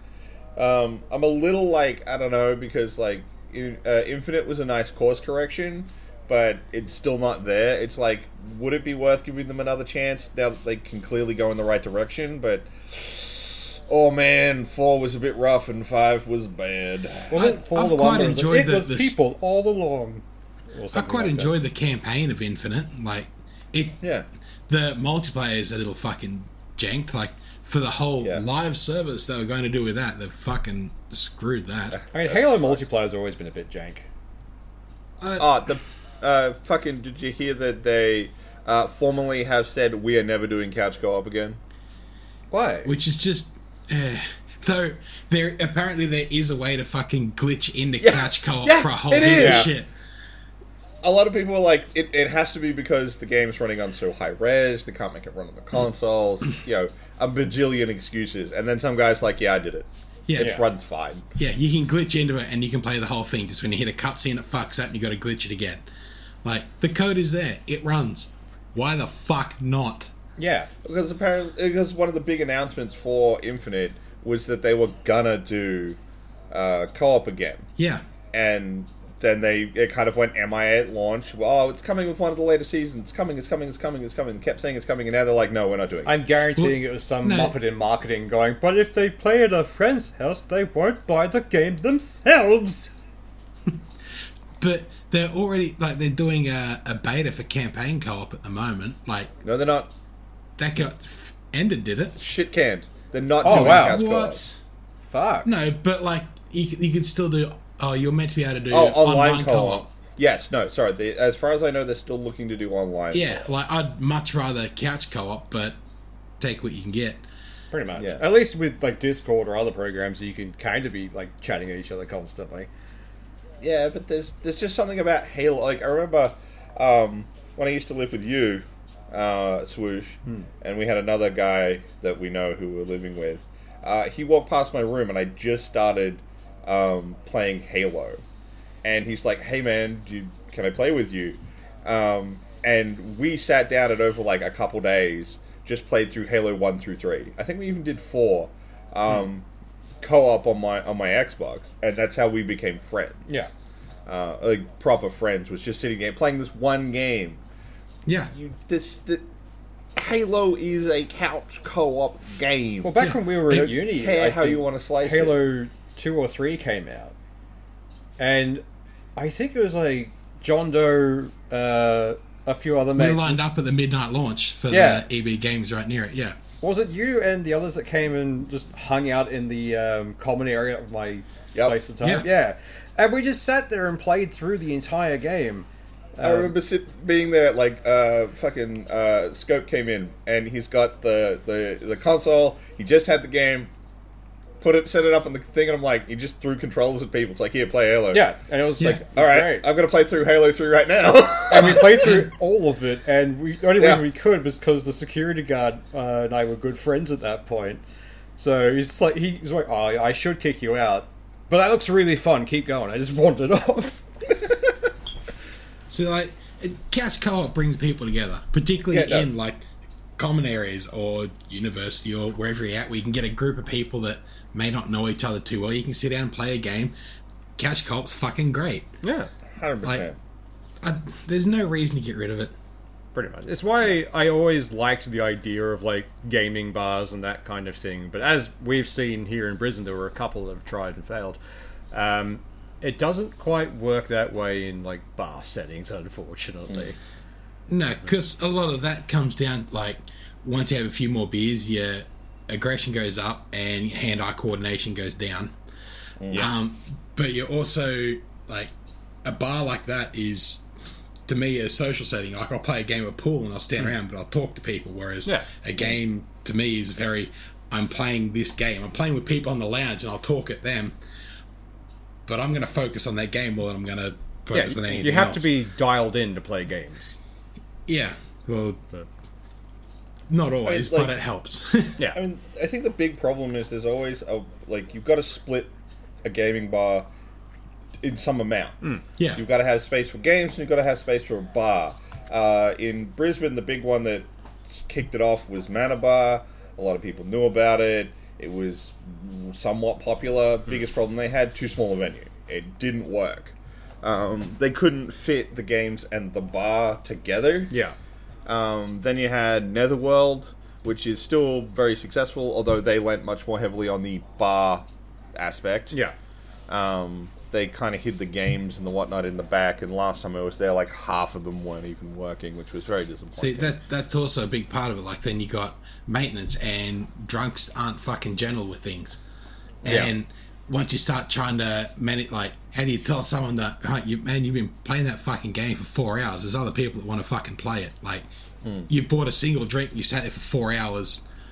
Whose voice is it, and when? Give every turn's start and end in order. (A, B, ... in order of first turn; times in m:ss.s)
0:00.6-0:17.4 A
0:17.3-0:21.6 B
0:17.3-0:19.2 C
0:20.9-0:24.0 C
0:24.7-0:32.0 C
0:31.9-0:32.8 A
0:32.1-0:34.1 B
0:35.2-0:35.5 C
0:35.4-0:41.6 A
0:42.5-0:42.9 B
0:42.8-0:49.9 C
0:48.0-0:49.7 A
0:49.1-0:49.7 B
0:51.0-1:01.2 A
1:00.3-1:00.6 C
1:00.4-1:00.7 B
1:01.4-1:05.8 C
1:06.4-1:10.1 C
1:10.4-1:10.7 B
1:10.8-1:16.0 A
1:16.5-1:17.7 A
1:17.8-1:18.0 C
1:18.3-1:26.1 A
1:26.1-1:32.9 B
1:26.6-1:27.6 C
1:34.6-1:39.3 C
1:39.4-1:39.9 A
1:40.6-1:42.2 C
1:42.2-1:44.4 A
1:43.4-1:44.6 C
1:43.4-1:44.0 B
1:45.1-1:45.5 B
1:45.4-1:49.9 C
1:48.7-1:53.5 A
1:53.1-1:55.8 C
1:56.4-1:57.2 C
1:57.7-2:02.7 B
1:58.0-1:58.2 A
2:03.6-2:18.2 A
2:18.8-2:29.5 A
2:30.0-2:33.2 A
2:34.1-2:37.4 A
2:38.1-2:38.3 C
2:38.3-2:39.2 A
2:40.0-2:42.9 A
2:42.8-2:47.1 B
2:43.0-2:43.8 C
2:43.5-2:45.4 A
2:48.2-2:48.6 B
2:49.2-2:53.4 B
2:53.0-2:56.4 C
2:54.7-2:55.1 B
2:56.6-3:06.5 B
3:01.5-3:01.8 A
3:02.0-3:02.3 C
3:06.2-3:13.7 A
3:14.6-3:18.2 A
3:18.1-3:19.7 B
3:19.2-3:22.1 A
3:21.5-3:27.8 B
3:23.8-3:24.0 A
3:28.4-3:34.0 B
3:35.9-3:39.7 C
3:38.9-3:39.3 A
3:40.2-3:47.0 C
3:47.6-3:48.9 C
3:49.0-3:49.3 B
3:49.6-3:50.2 A
3:50.8-3:52.5 C
3:53.2-4:01.4 B
4:01.9-4:07.0 B
4:07.7-4:15.5 C
4:16.2-4:16.5 A
4:16.3-4:18.7 C
4:19.2-4:20.7 C
4:21.3-4:31.0 C
4:32.3-4:35.5 C
4:34.5-4:37.2 B
4:37.9-4:38.8 C
4:40.3-4:42.0 C
4:40.6-4:41.2 A
4:42.1-4:45.7 A
4:46.2-4:47.1 A
4:48.0-4:48.8 A
4:49.2-4:49.4 C
4:49.4-5:07.7 A
5:07.7-5:08.0 B
5:08.5-5:14.8 A
5:15.4-5:16.0 A
5:16.7-5:23.8 A
5:23.4-5:29.2 C
5:29.8-5:30.1 A
5:29.8-5:38.2 C
5:38.6-5:38.9 A
5:38.9-5:41.2 C